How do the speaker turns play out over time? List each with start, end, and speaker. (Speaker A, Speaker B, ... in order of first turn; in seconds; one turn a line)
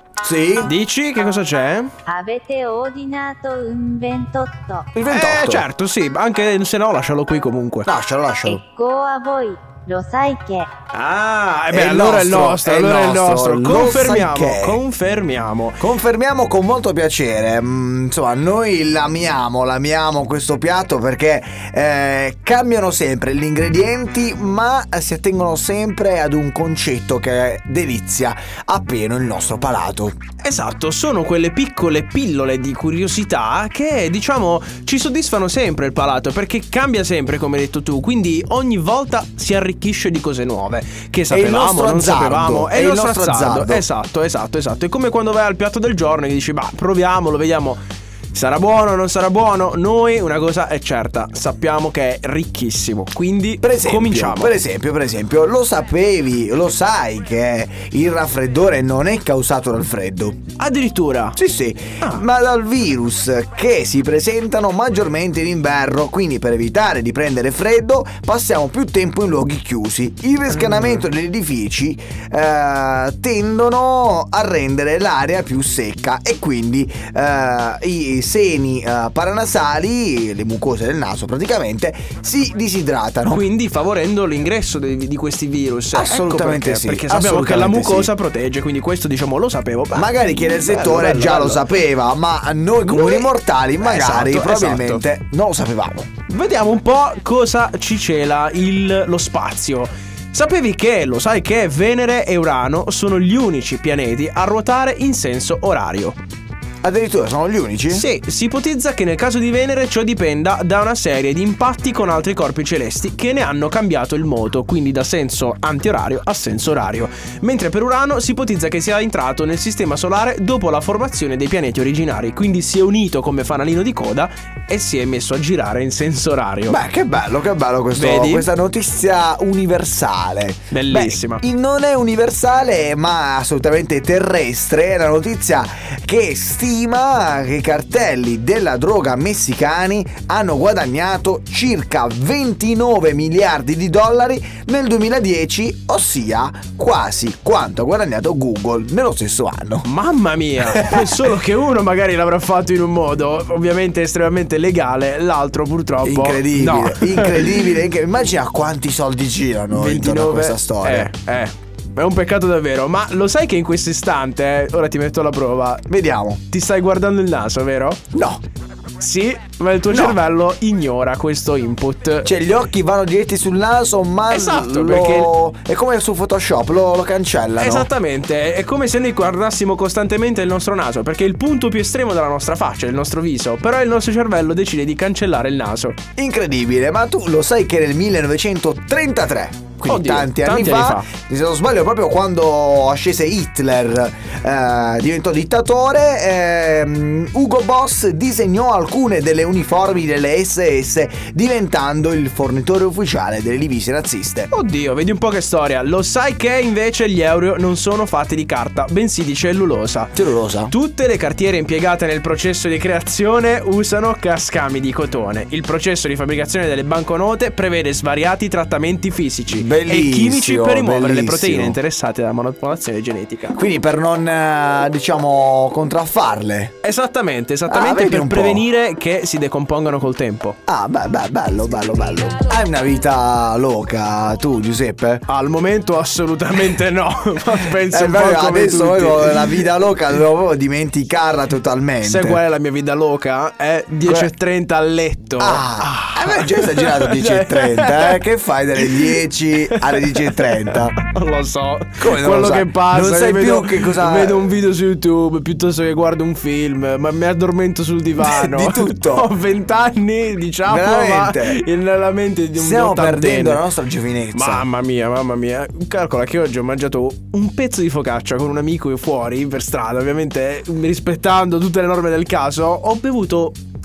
Speaker A: 0.2-0.7
Speaker B: 0.6-1.9
Speaker C: 2.0-4.9
Speaker A: 4.9-5.7
Speaker B: 5.1-7.9
Speaker A: 7.8-8.6
Speaker C: 8.4-10.7
Speaker B: 10.9-15.8
Speaker A: 11.7-14.8
Speaker A: 15.8-30.2
Speaker B: 30.4-47.8
Speaker A: 41.3-43.8
Speaker B: 48.3-54.5
Speaker A: 53.6-60.4
Speaker B: 60.6-61.4
Speaker A: 61.4-83.4
Speaker B: 70.6-71.0
Speaker B: 83.3-91.6
Speaker A: 85.9-88.1
Speaker A: 89.9-96.1
Speaker B: 92.8-95.0
Speaker B: 96.3-106.2
Speaker A: 106.8-108.0
Speaker B: 107.9-126.8
Speaker A: 126.7-149.9
Speaker B: 127.9-128.5
Speaker B: 130.7-131.4
Speaker B: 149.8-157.7
Speaker A: 150.6-151.3
Speaker A: 156.0-161.1
Speaker B: 159.7-165.9
Speaker A: 165.9-166.4
Speaker B: 166.5-168.0
Speaker A: 168.1-168.4
Speaker B: 169.0-172.3
Speaker A: 169.9-170.2
Speaker A: 172.2-177.9
Speaker B: 174.3-175.3
Speaker B: 177.6-185.9
Speaker A: 186.2-204.5
Speaker B: 189.8-191.1
Speaker B: 204.5-210.2
Speaker A: 210.2-210.7
Speaker B: 210.7-223.6
Speaker A: 219.5-221.8
Speaker A: 223.5-226.7
Speaker B: 226.8-230.6
Speaker A: 227.7-228.6
Speaker A: 230.7-235.2
Speaker B: 235.3-239.7
Speaker A: 237.8-242.4
Speaker B: 242.0-248.2
Speaker A: 245.4-251.0
Speaker B: 248.8-263.6
Speaker A: 252.0-254.5
Speaker A: 258.2-259.3
Speaker A: 260.6-261.6
Speaker A: 262.6-264.6
Speaker B: 264.3-273.6